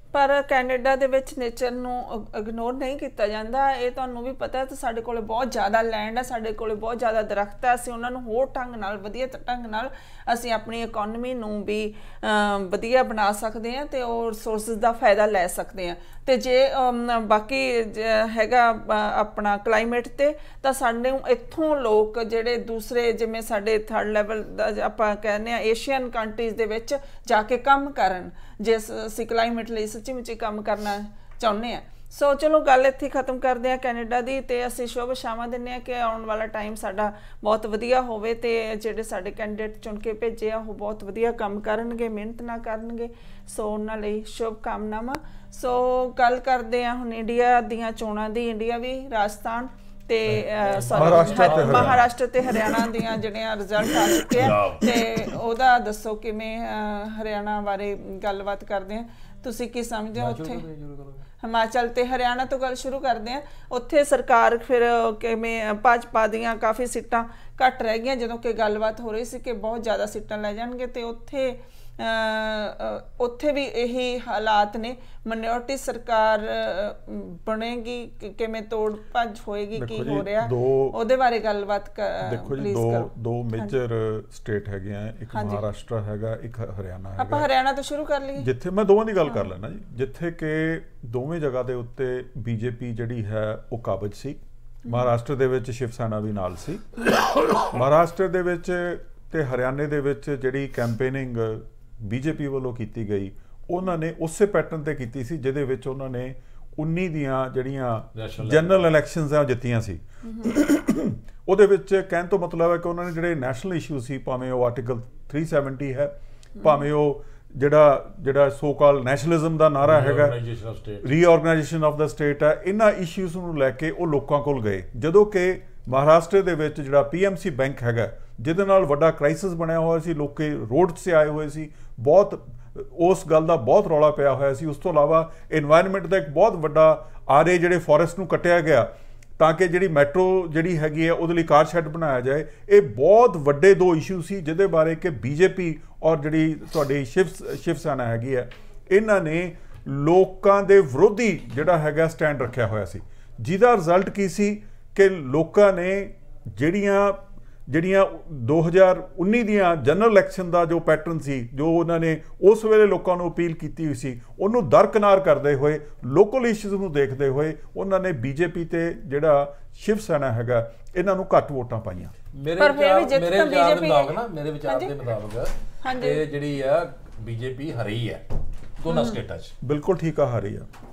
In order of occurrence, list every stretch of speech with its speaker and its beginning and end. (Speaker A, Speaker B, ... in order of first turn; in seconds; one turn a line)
Speaker A: 0.1-60.6
Speaker B: 50.4-52.0
Speaker C: 50.9-52.0
Speaker B: 54.3-54.9
Speaker B: 60.1-61.2
Speaker A: 61.4-83.7
Speaker C: 79.7-81.0
Speaker C: 82.2-87.5
Speaker A: 85.3-85.6
Speaker A: 87.2-88.5
Speaker C: 88.4-96.9
Speaker C: 97.5-120.4
Speaker B: 108.1-108.9
Speaker A: 110.2-110.5
Speaker B: 119.8-121.1
Speaker C: 121.0-172.1
Speaker B: 172.3-178.2
Speaker A: 172.6-174.9
Speaker A: 175.8-176.2
Speaker B: 178.8-179.5
Speaker A: 178.9-179.2
Speaker C: 179.6-180.7